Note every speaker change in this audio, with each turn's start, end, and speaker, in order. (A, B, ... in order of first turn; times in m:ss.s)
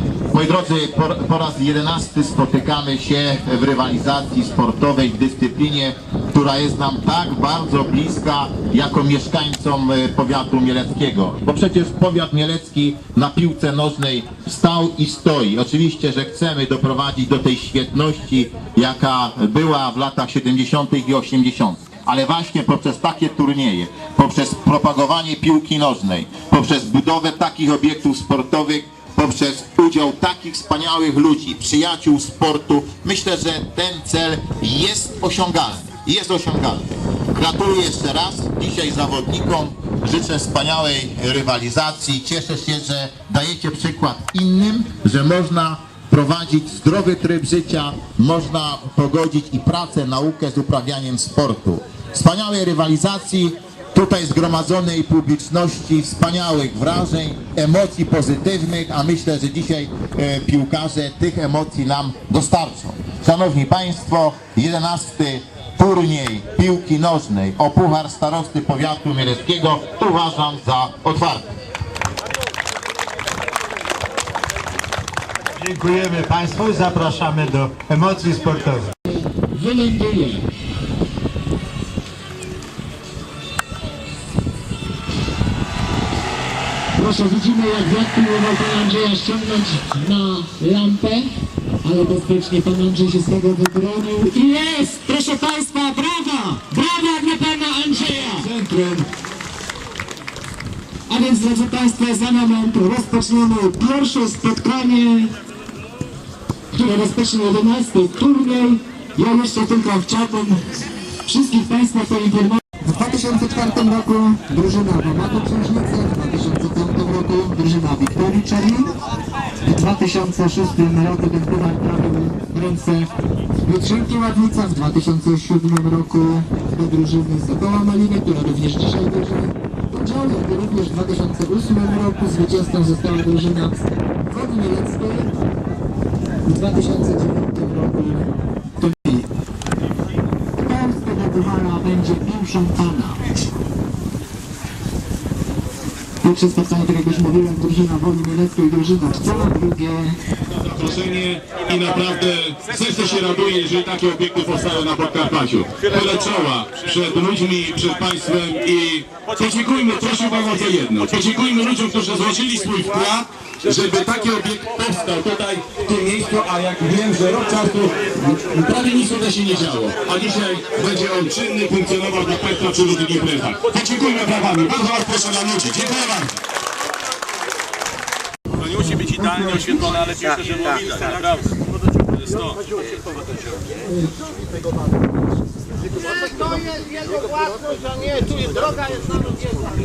0:00.3-1:11.5 A
1:15.6-1:18.9 B
1:19.3-1:20.4 C
1:27.0-1:31.3 C
1:31.8-1:38.6 C
1:38.6-1:39.0 B
1:41.1-1:45.3 C
1:46.7-1:50.6 C
1:51.3-1:58.9 C
1:59.7-2:03.1 C
2:03.7-2:13.7 C
2:14.3-2:15.3 C
2:16.5-2:18.3 C
2:18.8-2:19.2 C
2:20.6-2:23.2 C
2:26.2-2:30.1 C
2:30.7-2:56.4 D
2:36.0-2:36.3 E
2:58.6-3:01.5 E
3:02.3-3:02.6 E
3:06.2-3:09.5 F